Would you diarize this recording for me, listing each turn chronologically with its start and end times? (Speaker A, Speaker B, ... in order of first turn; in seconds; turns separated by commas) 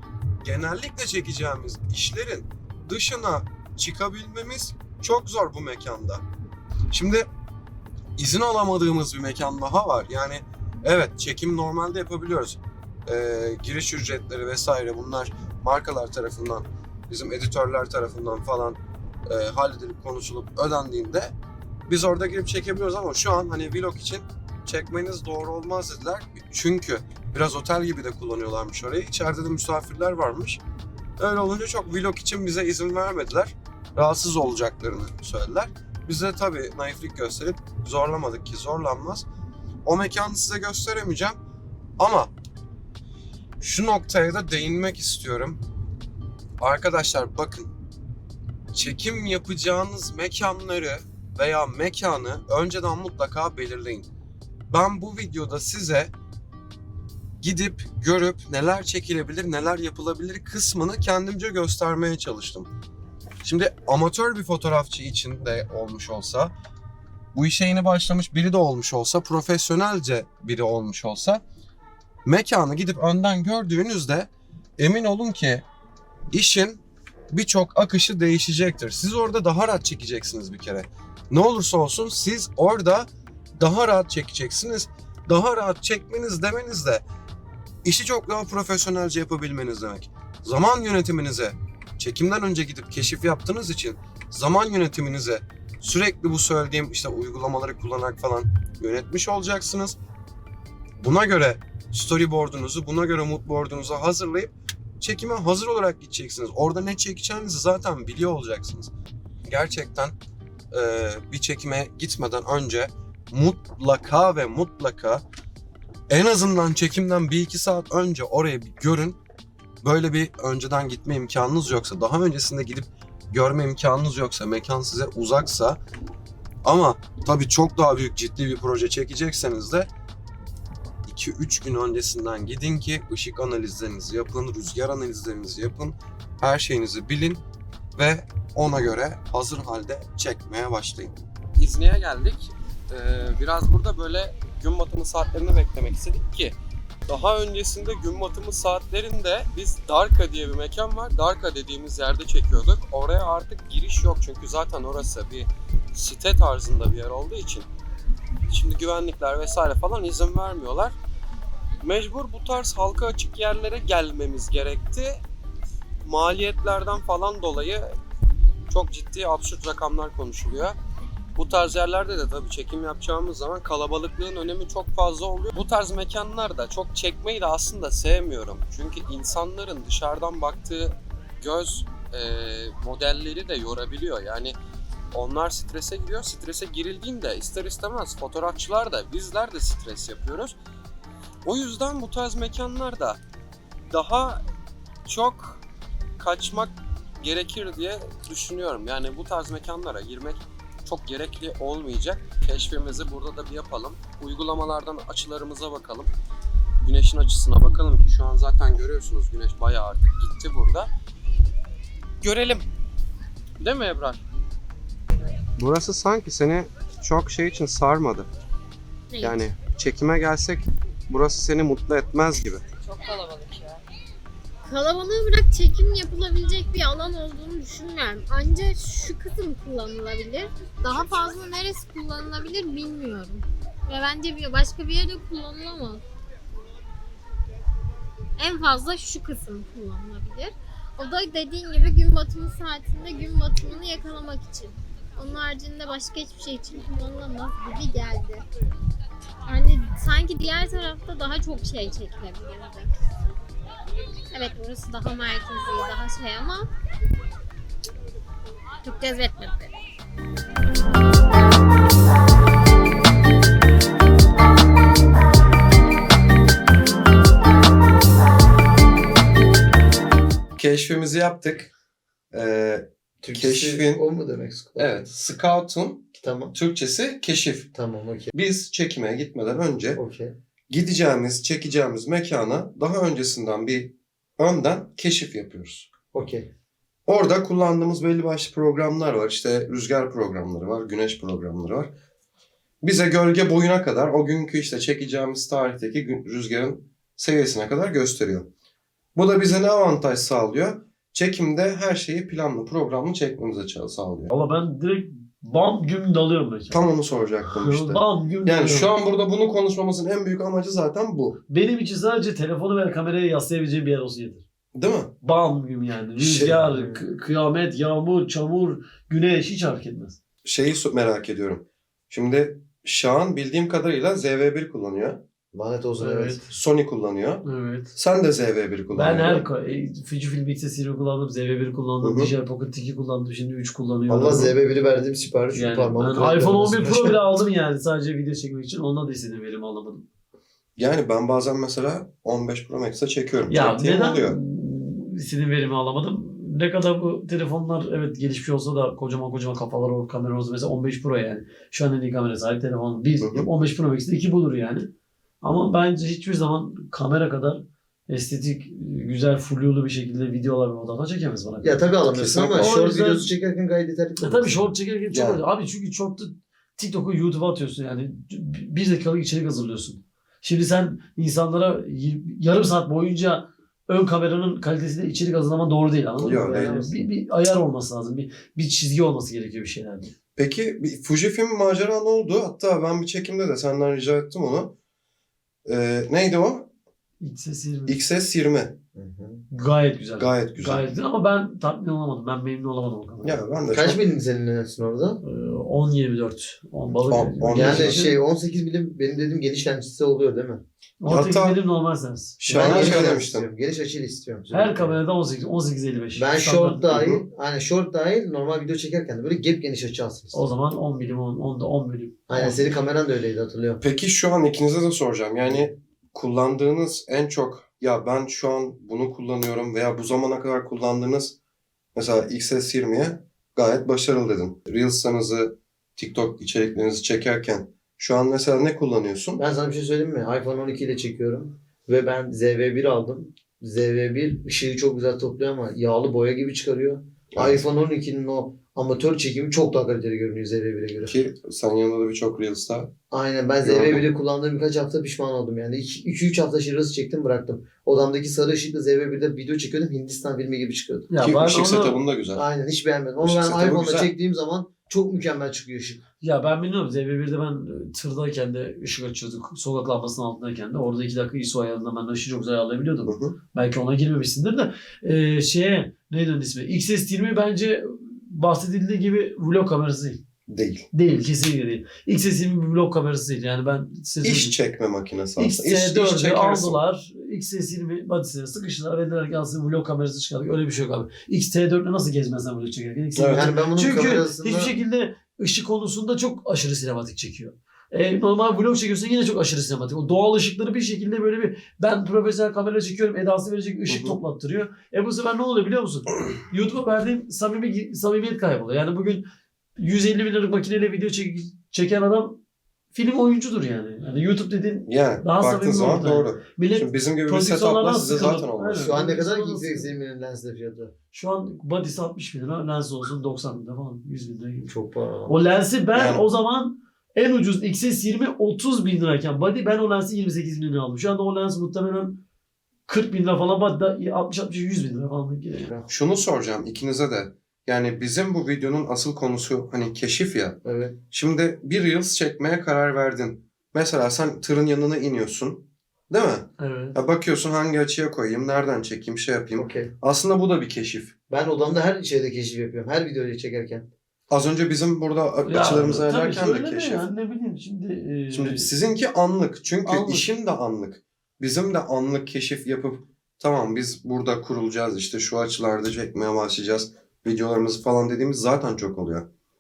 Speaker A: 0.4-6.2, Speaker A: 6.9-7.3, Speaker A: 8.2-21.4, Speaker A: 21.9-30.6, Speaker A: 31.2-39.3, Speaker A: 39.9-41.4, Speaker A: 42.0-42.3, Speaker A: 43.6-45.6, Speaker A: 46.6-47.7, Speaker A: 48.7-54.1, Speaker A: 54.7-56.1, Speaker A: 57.4-62.7, Speaker A: 63.4-66.5, Speaker A: 67.3-71.4, Speaker A: 72.2-75.6, Speaker A: 76.3-87.0, Speaker A: 87.8-100.0, Speaker A: 101.0-108.9, Speaker A: 109.5-110.2, Speaker A: 110.7-115.2, Speaker A: 116.1-119.2, Speaker A: 119.8-125.8, Speaker A: 126.6-129.9, Speaker A: 131.1-137.4, Speaker A: 138.0-157.7, Speaker A: 158.5-161.0, Speaker A: 161.8-165.2, Speaker A: 166.0-167.9, Speaker A: 168.7-170.8, Speaker A: 171.4-184.6, Speaker A: 185.1-190.6, Speaker A: 191.4-193.2, Speaker A: 193.9-194.4, Speaker A: 195.1-195.6, Speaker A: 196.2-206.1, Speaker A: 206.8-210.9, Speaker A: 212.2-212.7, Speaker A: 213.6-214.2, Speaker A: 215.6-218.3, Speaker B: 219.1-219.5, Speaker A: 219.2-222.6, Speaker B: 224.7-236.0, Speaker B: 238.4-248.4, Speaker B: 249.4-252.9, Speaker B: 254.3-256.7, Speaker B: 258.8-259.8, Speaker A: 270.6-271.7, Speaker A: 272.3-274.0, Speaker C: 273.2-275.1, Speaker A: 274.8-277.7, Speaker C: 276.2-276.6, Speaker C: 277.7-278.3, Speaker A: 278.3-280.0, Speaker C: 280.0-280.4, Speaker A: 280.7-285.9, Speaker C: 286.1-286.5, Speaker A: 287.1-291.9, Speaker A: 292.8-298.5, Speaker A: 299.1-304.3, Speaker D: 304.3-306.8, Speaker A: 306.7-311.4, Speaker D: 307.5-308.9, Speaker D: 311.5-314.4, Speaker A: 314.8-315.1, Speaker D: 315.2-320.2, Speaker A: 316.2-316.6, Speaker C: 316.4-317.1, Speaker A: 320.4-325.2, Speaker C: 325.5-326.5, Speaker D: 326.0-326.5, Speaker A: 326.5-329.4, Speaker D: 327.4-327.9, Speaker D: 328.9-334.5, Speaker A: 332.0-332.3, Speaker C: 334.1-337.2, Speaker D: 335.5-340.0, Speaker A: 340.8-344.4, Speaker D: 343.5-354.9, Speaker A: 353.2-353.5, Speaker D: 355.4-362.0, Speaker C: 361.6-364.7, Speaker A: 362.1-362.8, Speaker D: 362.5-363.3, Speaker D: 364.2-380.1, Speaker A: 365.1-365.4, Speaker A: 376.2-376.9, Speaker C: 376.5-376.9, Speaker A: 380.4-384.8, Speaker A: 385.7-386.7, Speaker D: 387.2-388.0, Speaker A: 387.9-388.8, Speaker C: 388.9-389.4, Speaker D: 389.5-393.4, Speaker A: 390.2-390.9, Speaker A: 393.2-394.0, Speaker C: 393.7-395.2, Speaker D: 395.2-398.1, Speaker A: 397.1-398.0, Speaker C: 397.5-400.6, Speaker D: 401.0-403.1, Speaker A: 401.1-401.6, Speaker A: 402.4-403.5, Speaker C: 402.5-405.0, Speaker D: 404.5-407.0, Speaker C: 406.1-410.4, Speaker A: 406.9-407.2, Speaker D: 410.3-412.6, Speaker C: 412.3-413.8, Speaker A: 413.8-421.4, Speaker A: 421.9-429.4, Speaker C: 429.4-441.1, Speaker A: 437.4-437.6, Speaker A: 441.1-442.9, Speaker C: 443.1-451.1, Speaker A: 443.6-444.1, Speaker D: 451.1-452.0, Speaker A: 451.2-452.5, Speaker C: 452.3-456.0, Speaker A: 453.2-454.1, Speaker D: 456.2-470.2, Speaker A: 463.1-463.4, Speaker A: 470.5-470.9, Speaker D: 470.9-474.6, Speaker A: 474.2-476.8, Speaker D: 475.4-499.2, Speaker A: 483.2-483.5, Speaker C: 483.3-484.7, Speaker A: 493.9-494.2, Speaker D: 499.8-502.4, Speaker D: 502.9-509.9, Speaker A: 504.9-508.9, Speaker C: 508.8-510.9, Speaker D: 511.1-514.7, Speaker C: 514.7-515.4, Speaker D: 515.3-522.2, Speaker A: 515.9-516.2, Speaker D: 522.9-525.7, Speaker A: 525.9-530.6, Speaker C: 530.6-531.0, Speaker A: 531.1-541.1, Speaker D: 536.6-537.0, Speaker C: 539.6-539.9, Speaker C: 541.3-543.9, Speaker A: 544.3-547.0, Speaker D: 545.5-548.7, Speaker A: 548.3-559.3, Speaker D: 549.8-550.3